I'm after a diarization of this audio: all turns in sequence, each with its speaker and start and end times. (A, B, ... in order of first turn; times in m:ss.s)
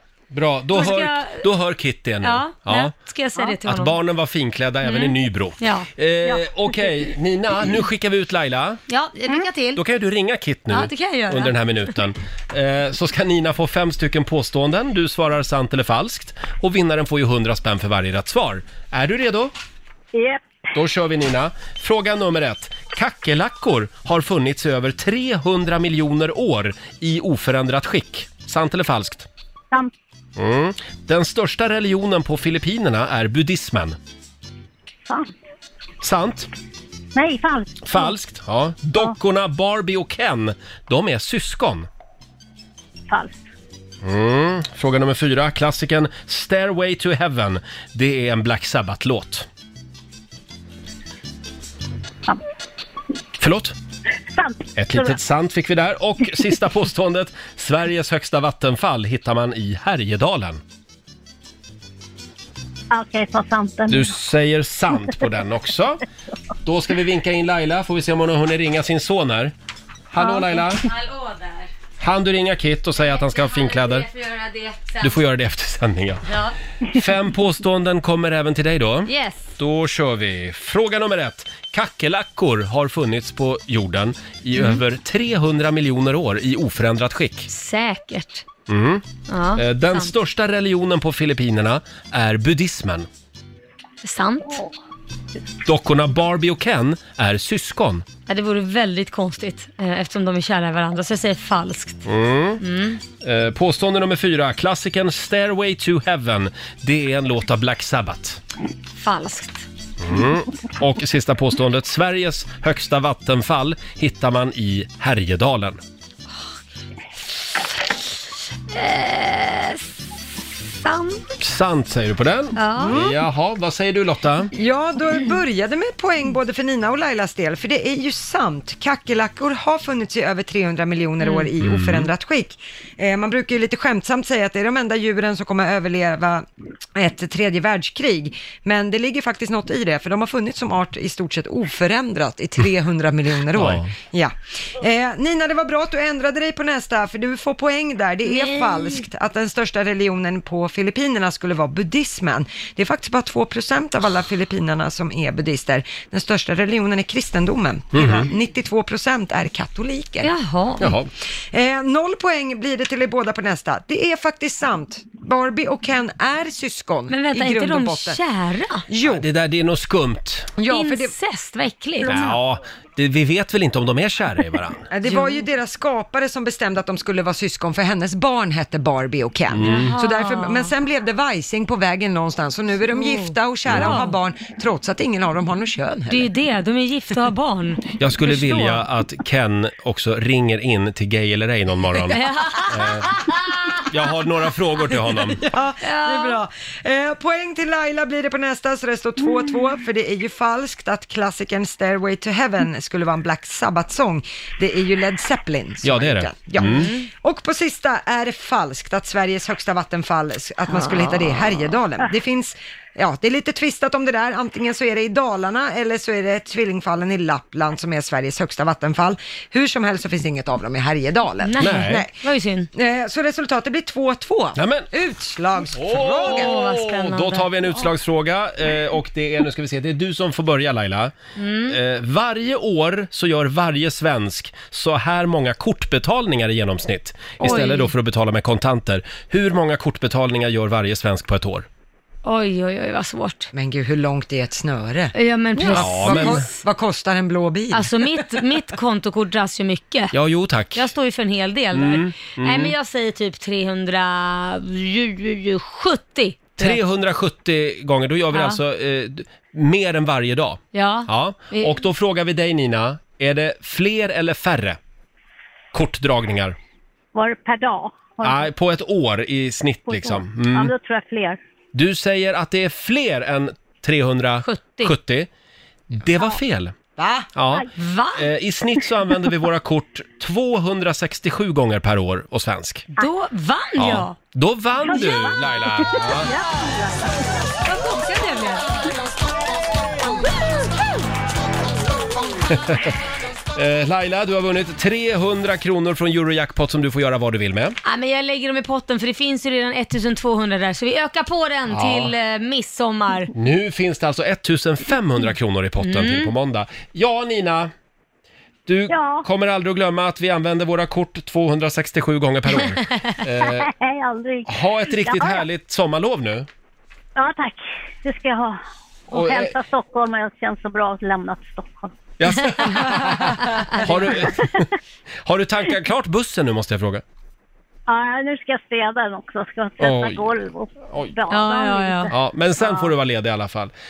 0:00.3-0:02.9 A
0:00.7-0:01.4 B
0:02.2-0:04.0 B
0:03.6-0:08.8 A
0:04.8-0:05.9 B
0:08.9-0:09.8 B
0:09.7-0:19.5 A
0:10.7-0:11.6 B
0:20.1-0:20.4 C
0:20.7-0:29.3 A
0:30.4-0:34.0 A
0:36.0-0:36.5 A
0:37.1-0:38.1 C
0:37.8-0:41.9 A
0:43.1-0:43.4 C
0:44.0-0:49.5 A
0:53.4-0:53.7 A
0:54.3-0:55.2 C
0:54.8-1:00.6 A
1:02.9-1:04.1 C
1:03.9-1:06.0 A
1:06.6-1:09.5 A
1:10.1-1:10.9 A
1:10.2-1:11.7 B
1:12.0-1:14.1 A
1:13.0-1:15.2 B
1:15.0-1:16.3 A
1:16.3-1:16.6 B
1:16.9-1:27.5 A
1:19.1-1:19.5 B
1:27.5-1:28.4 B
1:28.7-1:29.0 A
1:29.3-1:30.1 B
1:29.6-1:33.1 A
1:34.0-1:34.6 B
1:35.7-1:38.0 A
1:38.3-1:42.0 B
1:42.0-1:42.6 A
1:42.6-1:43.0 B
1:43.2-1:48.4 A
1:49.0-1:49.7 B
1:50.0-1:55.8 A
1:58.7-1:59.9 B
2:00.8-2:01.2 B
2:01.4-2:04.5 A
2:02.6-2:03.0 B
2:02.8-2:03.2 D
2:04.5-2:40.3 D
2:11.2-2:11.5 B
2:11.6-2:12.1 A
2:23.5-2:23.9 A
2:28.3-2:29.0 B
2:37.9-2:38.3 A
2:40.2-2:40.9 B
2:40.8-2:41.1 A
2:41.5-2:48.2 D
2:47.1-2:48.8 B
2:48.9-2:49.2 D
2:49.0-2:50.5 A
2:50.6-2:51.1 D
2:50.7-2:52.2 B
2:52.0-2:54.9 A
2:52.0-2:52.3 C
2:54.9-3:06.3 D
2:55.1-2:55.4 B
2:59.5-3:00.0 A
2:59.6-3:00.7 B
3:03.0-3:04.1 B
3:03.7-3:04.0 A
3:06.1-3:08.8 B
3:08.0-3:13.1 A
3:12.1-3:13.0 B
3:13.9-3:15.4 A
3:15.4-3:42.2 D
3:15.8-3:16.4 B
3:25.8-3:26.9 A
3:26.6-3:27.0 B
3:30.8-3:31.2 B
3:41.4-3:42.7 B
3:41.6-3:42.0 A
3:42.7-3:46.6 D
3:44.6-3:44.9 A
3:45.7-3:51.1 A
3:46.2-3:47.9 B
3:51.4-3:51.8 B
3:51.7-4:01.7 A
3:57.4-3:57.9 B
4:02.2-4:03.5 B
4:03.5-4:05.1 D
4:05.1-4:06.5 B
4:05.6-4:07.9 D
4:05.7-4:06.4 A
4:07.7-4:10.1 B
4:10.1-4:10.9 A
4:10.7-4:16.8 B
4:11.7-4:12.7 A
4:16.6-4:24.8 A
4:18.3-4:18.6 B
4:20.7-4:21.8 B
4:25.7-4:26.6 A
4:27.1-4:28.5 C
4:28.2-4:30.7 A
4:29.9-4:31.4 C
4:31.7-4:35.3 A
4:34.4-4:34.9 B
4:36.0-4:36.7 A
4:37.0-4:37.3 D
4:37.3-4:42.9 A
4:37.8-4:38.3 B
4:43.0-4:44.2 B
4:43.8-4:46.3 A
4:44.8-4:47.5 C
4:47.6-4:48.7 B
4:53.5-4:57.8 A
4:57.8-5:03.3 B
5:01.7-5:02.1 A
5:03.3-5:07.7 A
5:05.8-5:06.3 B
5:08.7-5:13.7 A
5:08.9-5:09.3 C
5:13.4-5:15.4 C
5:14.5-5:16.5 A
5:17.2-5:21.9 C
5:19.1-5:19.5 A
5:22.2-5:24.7 A
5:23.9-5:24.6 C
5:25.2-5:27.0 A
5:27.9-5:32.9 C
5:29.8-5:30.3 A
5:31.3-5:32.1 B
5:32.1-5:33.7 A